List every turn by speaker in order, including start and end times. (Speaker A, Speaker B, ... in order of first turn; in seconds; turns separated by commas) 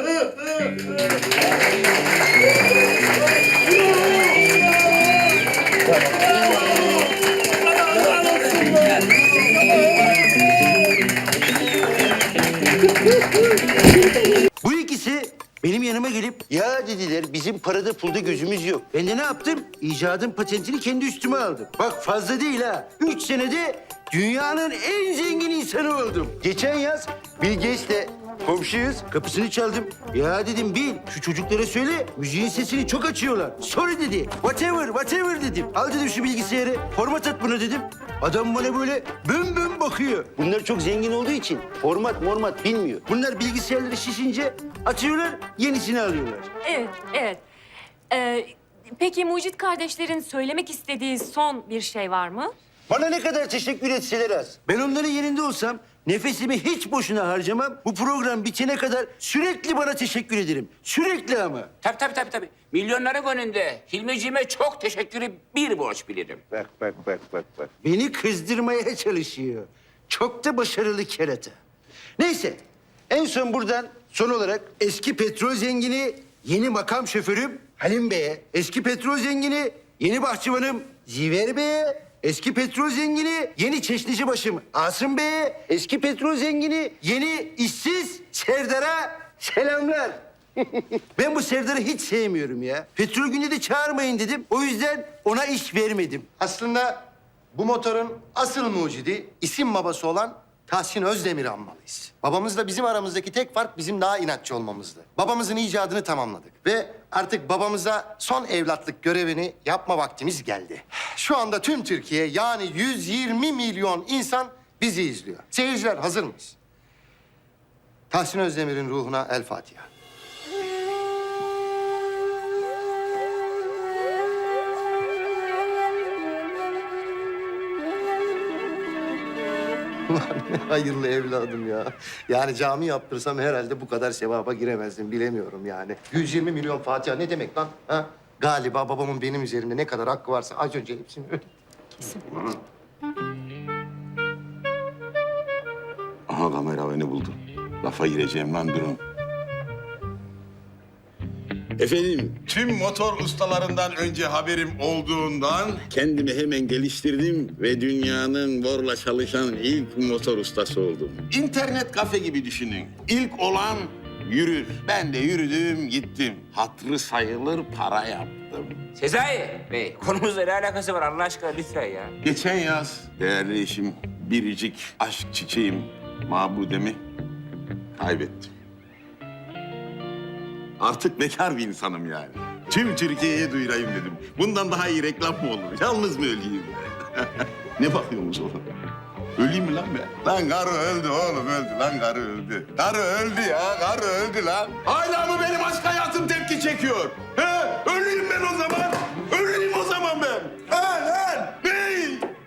Speaker A: 7.9-9.2, Speaker B: 14.6-46.5, Speaker C: 46.6-47.4, Speaker C: 48.1-52.5, Speaker B: 52.9-61.7, Speaker A: 61.8-66.4, Speaker B: 66.5-71.5, Speaker B: 72.2-90.2, Speaker B: 91.1-96.3, Speaker D: 96.4-97.0, Speaker D: 97.5-116.6, Speaker D: 118.1-119.9, Speaker D: 130.1-141.4, Speaker E: 146.3-149.0, Speaker E: 151.8-168.8, Speaker A: 168.9-172.1, Speaker E: 172.2-177.0, Speaker E: 178.0-178.5, Speaker E: 180.8-188.6, Speaker E: 189.4-202.3